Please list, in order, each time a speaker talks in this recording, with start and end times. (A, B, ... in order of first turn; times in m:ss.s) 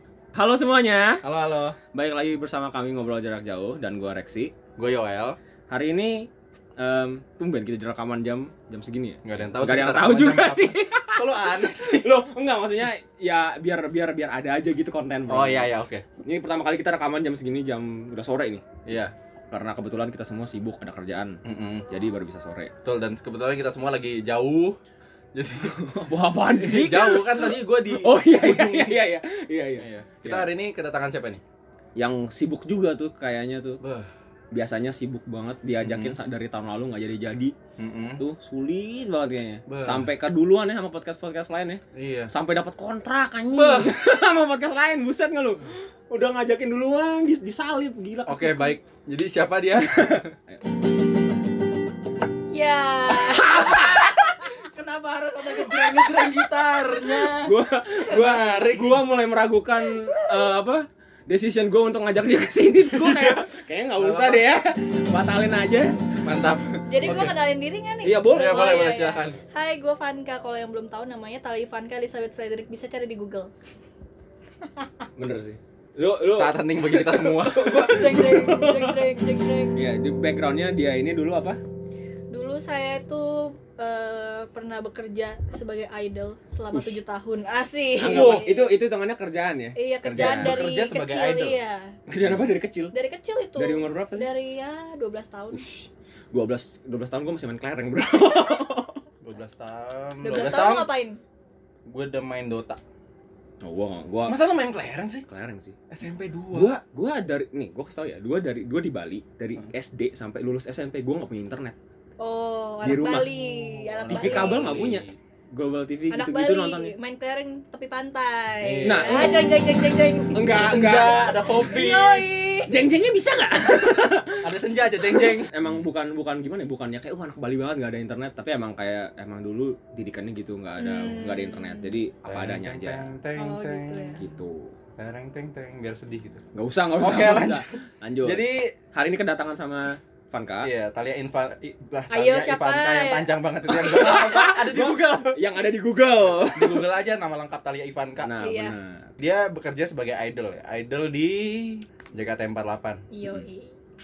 0:00.3-0:01.2 A
0:01.2-0:01.8 B
0:01.9-0:04.5 A
0:04.8-0:05.4 B
0:05.7-0:15.7 A
0:09.2-0:12.2 B
0:15.3-0:16.0 B
0:16.2-0:18.7 A
0:18.8-0:19.1 B
0:19.5-0:22.7 A
0:21.4-0:21.9 B
0:22.8-0:24.8 B
0:25.3-0:25.7 B
0:25.6-0:30.5 A
0:26.6-0:29.0 B
0:29.8-0:31.4 B
0:32.0-0:33.8 A
0:33.8-0:34.1 B
0:34.5-0:37.5 A
0:35.8-0:36.2 B
0:37.8-0:38.2 B
0:38.2-0:48.7 A
0:39.7-0:40.1 B
0:41.9-0:42.3 B
0:43.5-0:43.9 B
0:48.3-0:50.3 B
0:49.8-0:50.6 A
0:52.5-0:53.9 C
0:53.1-0:54.2 A
0:53.6-0:57.5 B
0:55.7-1:05.9 A
0:58.1-0:59.0 B
1:00.0-1:00.5 C
1:02.9-1:04.5 B
1:06.2-1:07.4 B
1:06.9-1:13.5 C
1:08.0-1:08.9 A
1:08.3-1:09.4 B
1:15.2-1:21.6 A
1:16.3-1:18.3 B
1:17.9-1:19.8 C
1:22.3-1:28.8 C
1:26.7-1:27.0 A
1:28.0-1:30.6 A
1:28.0-1:28.4 B
1:29.7-1:31.9 C
1:30.0-1:31.6 B
1:32.1-1:32.9 A
1:32.2-1:32.5 B
1:32.9-1:35.6 C
1:33.6-1:34.3 A
1:35.5-1:39.0 A
1:39.2-1:40.9 B
1:40.2-1:41.2 C
1:41.9-1:42.8 B
1:43.6-1:44.4 A
1:44.2-1:45.2 B
1:45.3-1:45.8 A
1:45.9-1:46.8 B
1:46.5-1:51.8 A
1:52.2-1:54.9 C
1:52.8-1:53.3 A
1:53.3-1:55.2 B
1:54.1-1:56.9 A
1:56.1-2:02.7 C
1:58.6-1:59.5 B
1:58.8-1:59.5 A
2:00.3-2:01.2 A
2:00.5-2:02.2 B
2:02.7-2:13.1 A
2:04.4-2:05.8 B
2:10.8-2:11.9 C
2:12.2-2:14.2 B
2:13.4-2:14.2 C
2:14.2-2:14.7 A
2:15.0-2:18.7 B
2:16.5-2:20.7 A
2:20.6-2:25.4 B
2:22.1-2:23.3 C
2:23.7-2:26.8 A
2:26.5-2:28.3 B
2:28.2-2:29.1 A
2:28.4-2:28.7 C
2:29.2-2:33.0 B
2:33.1-2:33.8 C